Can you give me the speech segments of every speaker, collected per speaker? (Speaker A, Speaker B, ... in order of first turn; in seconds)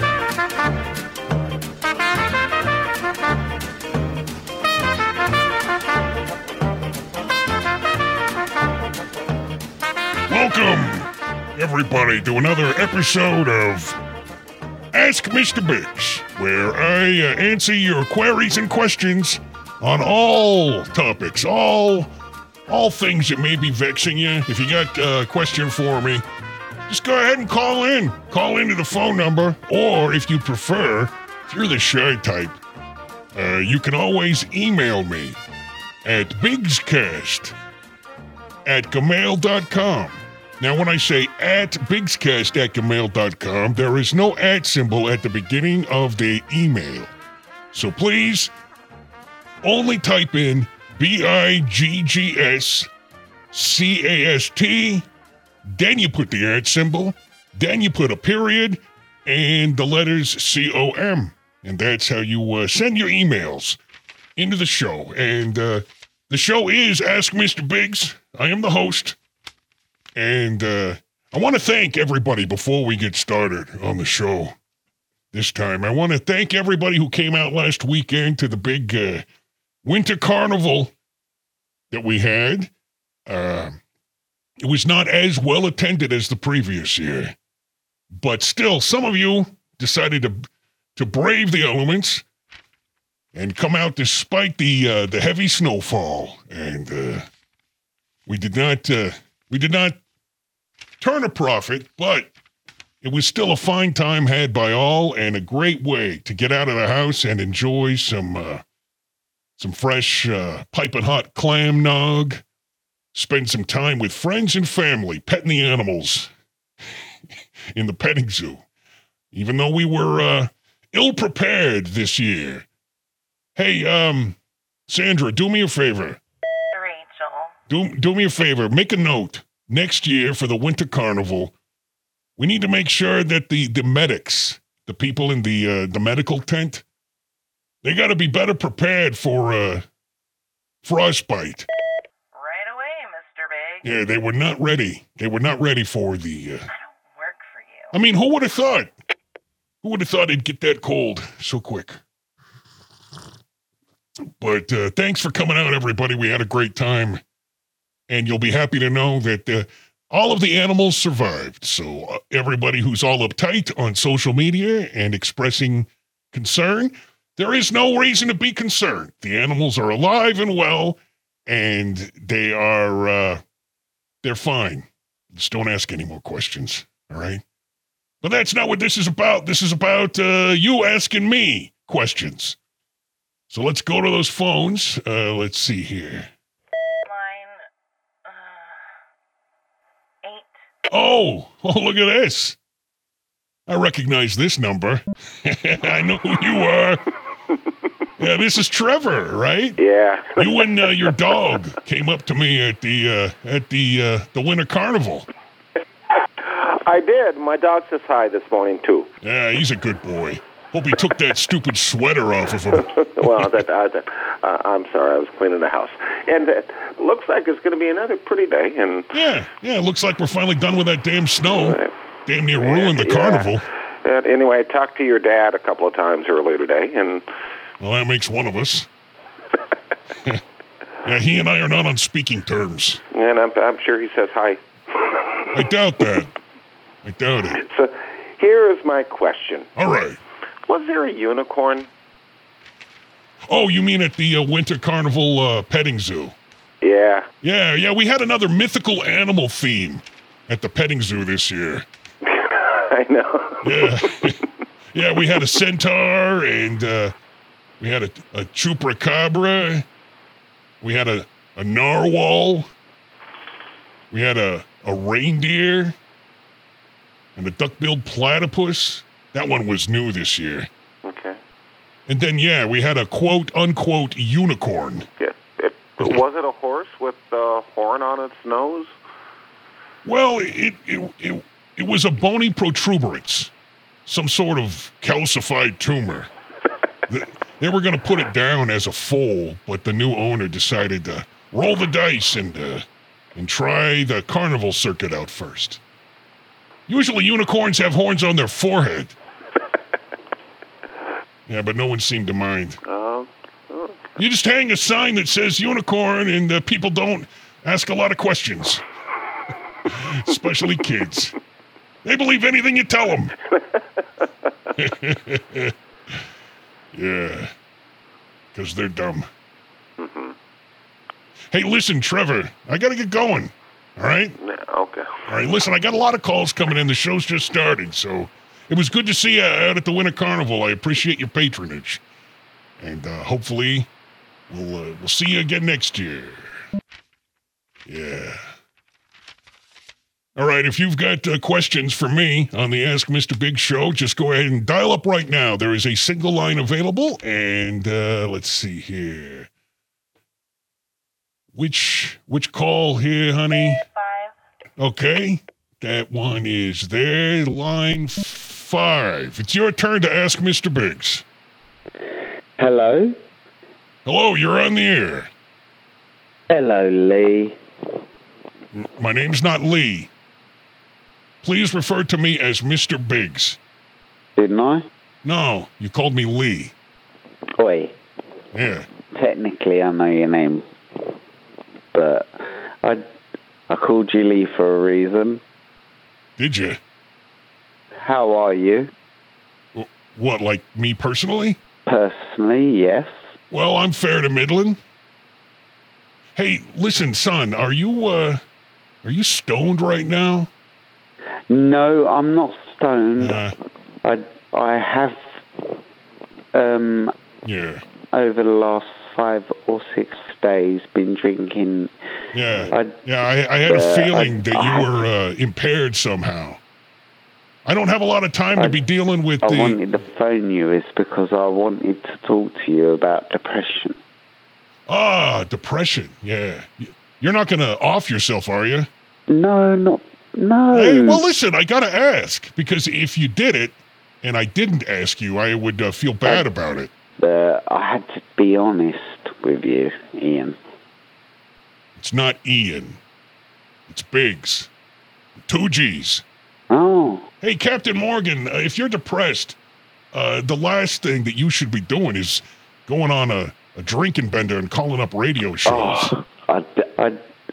Speaker A: 10.3-14.0, 14.9-22.1, 22.7-26.2, 26.9-32.6, 33.3-35.4, 36.0-37.5, 38.6-47.1, 47.7-48.5, 49.6-52.9, 53.5-55.0, 55.7-63.8, 64.4-69.2, 70.2-74.5, 75.3-79.2, 79.8-80.9, 81.9-82.7, 83.3-83.8, 84.6-87.3, 88.2-90.4, 91.0-92.2, 93.3-97.3, 98.2-100.0, 101.0-102.3, 103.0-108.6, 109.6-112.4, 113.1-116.3, 117.7-118.6, 119.3-122.7, 123.5-124.3, 124.9-126.2, 127.7-131.5, 132.4-136.8, 137.8-139.8, 140.8-141.7, 143.8-146.7, 147.9-148.9, 149.8-152.0, 154.4-157.2, 158.1-173.4, 174.2-177.4, 178.2-182.6, 183.5-186.3, 190.9-192.6, 193.7-197.0, 198.2-199.8, 200.3-205.3, 209.2-213.6, 219.1-223.7, 227.8-228.9, 231.0-233.0, 235.5-236.3, 237.0-237.6, 239.8-240.2, 243.5-246.3, 247.4-251.8, 253.6-254.4, 254.9-257.1, 257.8-259.8, 260.8-262.7, 264.1-265.9, 267.4-270.7, 272.1-275.1, 280.0-283.5, 284.1-286.3, 287.1-292.8, 293.4-295.8, 296.9-299.1, 301.5-302.8, 304.2-308.8, 309.9-311.3, 312.0-313.3, 314.8-315.7, 316.9-317.5, 318.5-319.3, 321.5-324.4, 325.3-332.0, 332.8-333.9, 334.5-336.5, 337.9-338.4, 340.4-349.5, 351.5-353.8, 354.8-361.2, 364.0-365.3, 368.7-370.1, 371.4-373.6, 375.2-376.7, 378.5-378.9, 386.4-386.8, 389.7-391.6, 393.5-394.8, 396.4-398.4, 399.0-400.5, 403.2-403.5, 407.4-407.8, 412.3-416.6, 417.6-419.8, 424.9-428.9, 430.7-436.9, 442.0-443.0, 443.9-444.7, 445.5-446.2, 447.4-449.6, 450.1-456.1
Speaker B: 126.7-127.5, 142.3-143.9, 146.7-147.9, 187.0-187.7, 188.2-188.9, 190.2-190.5, 353.9-354.3
Speaker C: 199.8-201.2, 206.4-209.1, 212.8-219.1, 221.4-221.9, 222.6-227.2, 233.1-234.6, 237.6-239.7, 240.7-241.9, 246.8-247.2, 252.3-253.9, 271.0-271.4, 275.2-278.9, 302.8-304.0, 320.0-320.3, 324.4-325.1
Speaker D: 362.6-363.1, 366.5-367.6, 374.4-374.9, 377.6-377.9, 379.1-380.6, 381.9-383.0, 383.7-385.4, 387.9-388.9, 391.9-393.3, 401.5-403.4, 404.0-405.2, 406.5-407.1, 408.1-411.9, 413.6-415.0, 419.4-424.0, 429.3-431.2, 437.2-440.6, 446.7-447.3, 455.6-457.2